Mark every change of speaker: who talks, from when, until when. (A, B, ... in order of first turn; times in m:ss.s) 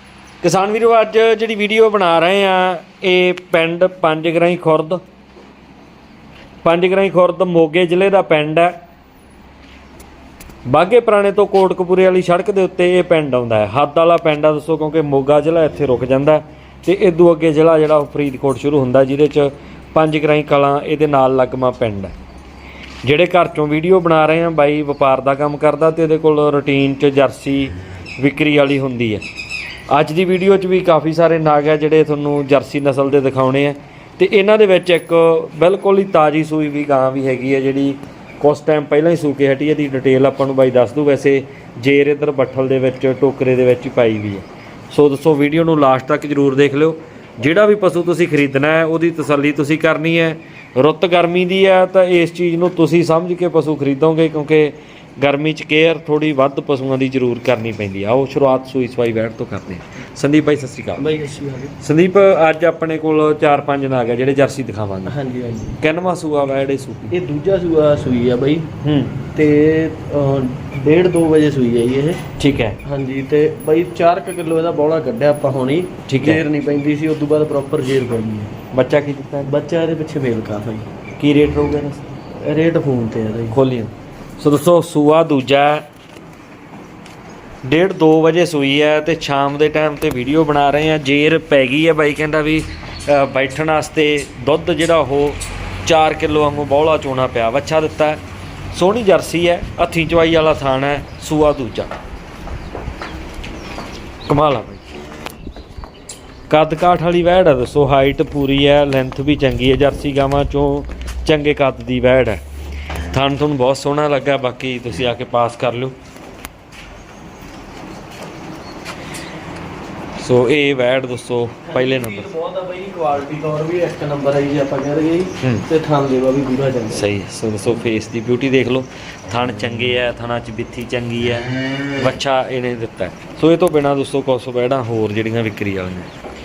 0:00.4-0:05.0 A
0:06.6-0:08.7 A
0:10.7-0:22.1 A
0:23.0-0:29.2 A
0:29.9-1:01.0 A
1:01.0-1:01.8 B
1:01.8-1:05.2 A
1:05.0-1:05.8 B
1:05.8-1:07.2 A
1:07.1-1:08.7 B
1:08.8-1:09.2 A
1:09.3-1:12.2 B
1:12.4-1:12.8 A
1:12.8-1:18.5 B
1:16.1-1:16.4 A
1:18.7-1:19.5 A
1:19.4-1:20.9 B
1:21.2-1:22.1 A
1:22.4-1:23.6 B
1:23.5-1:25.8 A
1:27.6-1:38.2 A
1:38.7-1:41.9 A
1:44.3-1:44.9 A
1:46.5-1:52.4 A
1:53.1-1:56.0 A
2:00.2-2:02.3 A
2:01.7-2:07.1 B
2:05.4-2:05.7 A
2:06.9-2:16.1 A